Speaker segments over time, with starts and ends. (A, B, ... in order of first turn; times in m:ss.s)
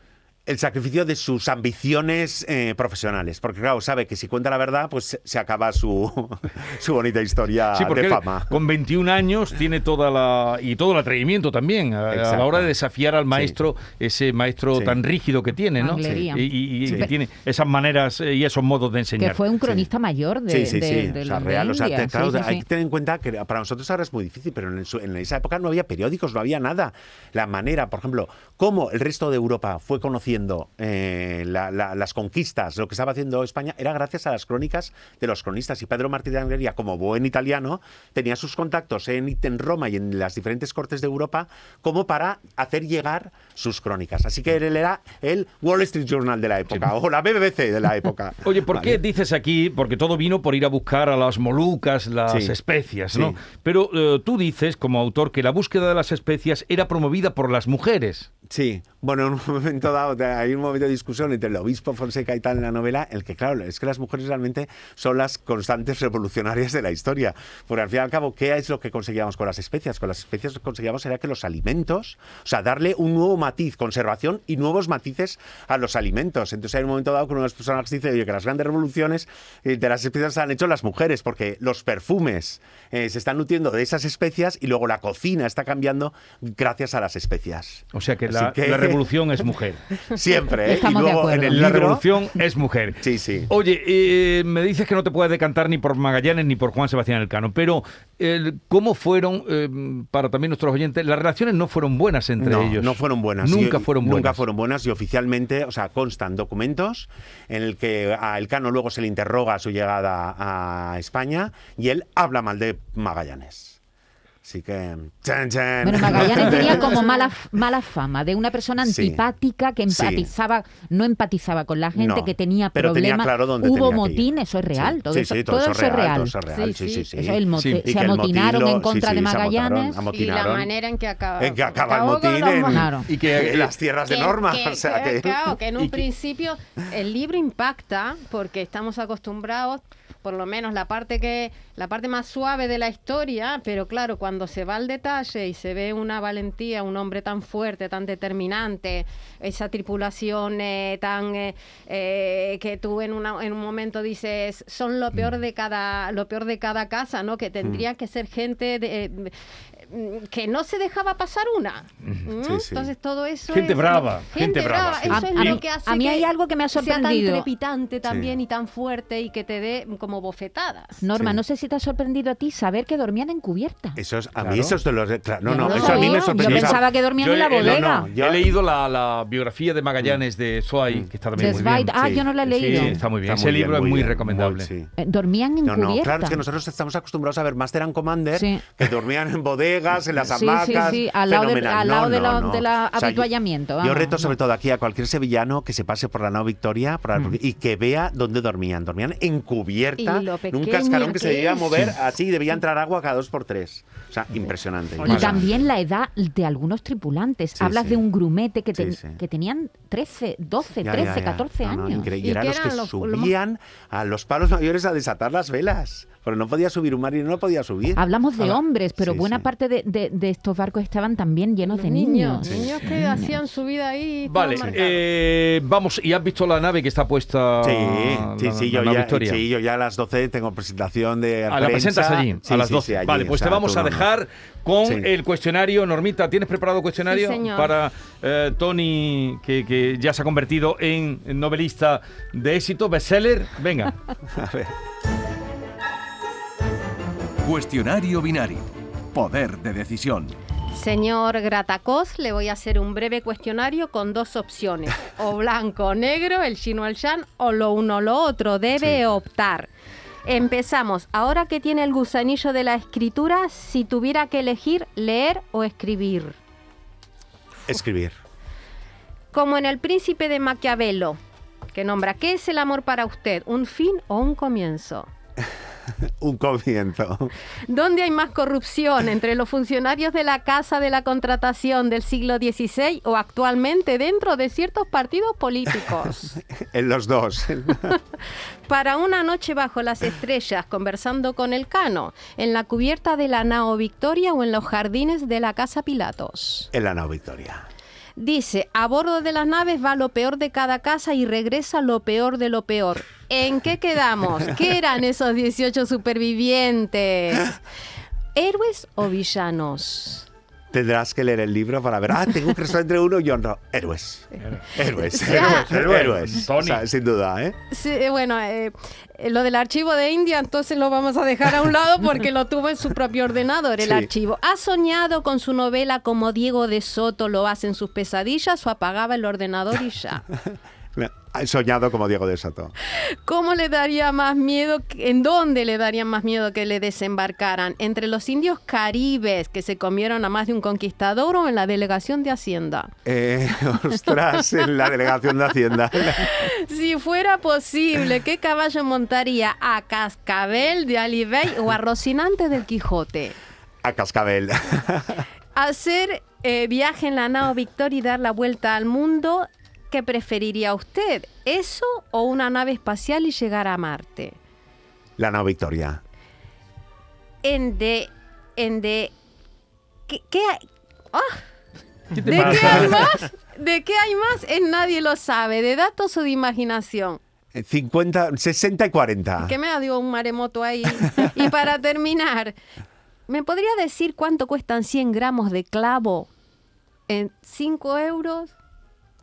0:00.5-0:08.6 A
0:07.7-0:19.4 B
0:12.1-0:12.7 A
0:13.3-0:13.6 A
0:14.7-0:15.0 A
0:15.8-0:17.1 C
0:19.2-0:22.6 C
0:20.5-0:49.0 A
0:48.4-0:58.3 B
0:52.3-0:52.6 A
0:53.1-0:53.4 A
0:58.5-1:29.0 A
1:27.9-1:29.8 B
1:30.0-1:32.0 A
1:30.6-1:31.7 C
1:31.5-1:44.4 B
1:33.0-1:33.5 A
1:42.4-1:53.8 A
1:54.4-1:57.0 A
1:55.8-2:06.4 C
1:58.8-1:59.3 A
1:59.9-2:00.3 A
2:01.9-2:10.7 A
2:06.5-2:07.0 D
2:07.1-2:10.0 C
2:07.6-2:07.8 B
2:10.1-2:12.9 D
2:11.4-2:16.0 A
2:12.7-2:13.1 C
2:13.1-2:13.7 B
2:14.1-2:51.0 D
2:42.4-2:42.9 A
2:43.5-2:45.6 B
2:45.1-2:47.4 C
2:48.0-2:48.3 A
2:51.0-2:54.0 C
2:51.1-2:51.4 A
2:54.0-2:56.8 A
2:54.4-2:54.8 B
2:55.4-2:58.1 C
2:55.6-3:04.7 B
2:55.8-2:56.2 D
2:57.6-2:58.5 A
3:00.9-3:04.9 A
3:01.3-3:03.0 C
3:05.0-3:06.4 C
3:05.6-3:25.6 A
3:08.3-3:08.7 C
3:10.2-3:14.3 C
3:20.0-3:21.9 D
3:25.0-3:32.1 C
3:27.6-3:28.0 A
3:28.7-3:29.2 A
3:30.8-3:38.0 A
3:32.2-3:33.3 D
3:37.9-3:43.4 C
3:39.0-3:39.5 A
3:41.6-3:45.0 D
3:42.4-3:42.8 A
3:44.2-3:49.4 B
3:47.6-3:54.1 A
3:51.5-4:03.9 B
3:54.8-3:55.1 A
3:57.0-3:57.7 D
4:04.3-4:04.7 A
4:07.4-4:10.3 E
4:10.7-4:19.7 D
4:20.2-4:26.4 D
4:27.7-4:28.1 A
4:29.3-4:31.2 D
4:31.7-4:35.1 D
4:36.0-4:37.3 A
4:37.7-4:46.4 D
4:46.5-4:48.0 A
4:48.7-4:56.7 D
4:56.7-4:57.7 A
4:58.2-5:07.6 D
5:08.3-5:10.3 D
5:10.7-5:17.6 A
5:14.4-5:16.8 B
5:15.1-5:15.8 D
5:17.7-5:30.2 D
5:23.8-5:24.1 A
5:30.9-5:32.7 A
5:32.9-5:42.9 D
5:43.0-5:46.3 A
5:46.1-5:53.4 D
5:53.8-5:55.2 A
5:55.5-6:04.4 D
6:05.2-6:06.0 A
6:07.4-6:09.1 D
6:10.1-6:10.6 D
6:11.1-6:11.4 D
6:12.1-6:13.0 B
6:12.2-6:17.2 D
6:17.5-6:19.5 A
6:19.4-6:22.6 D
6:23.3-6:26.3 D
6:27.1-6:28.5 D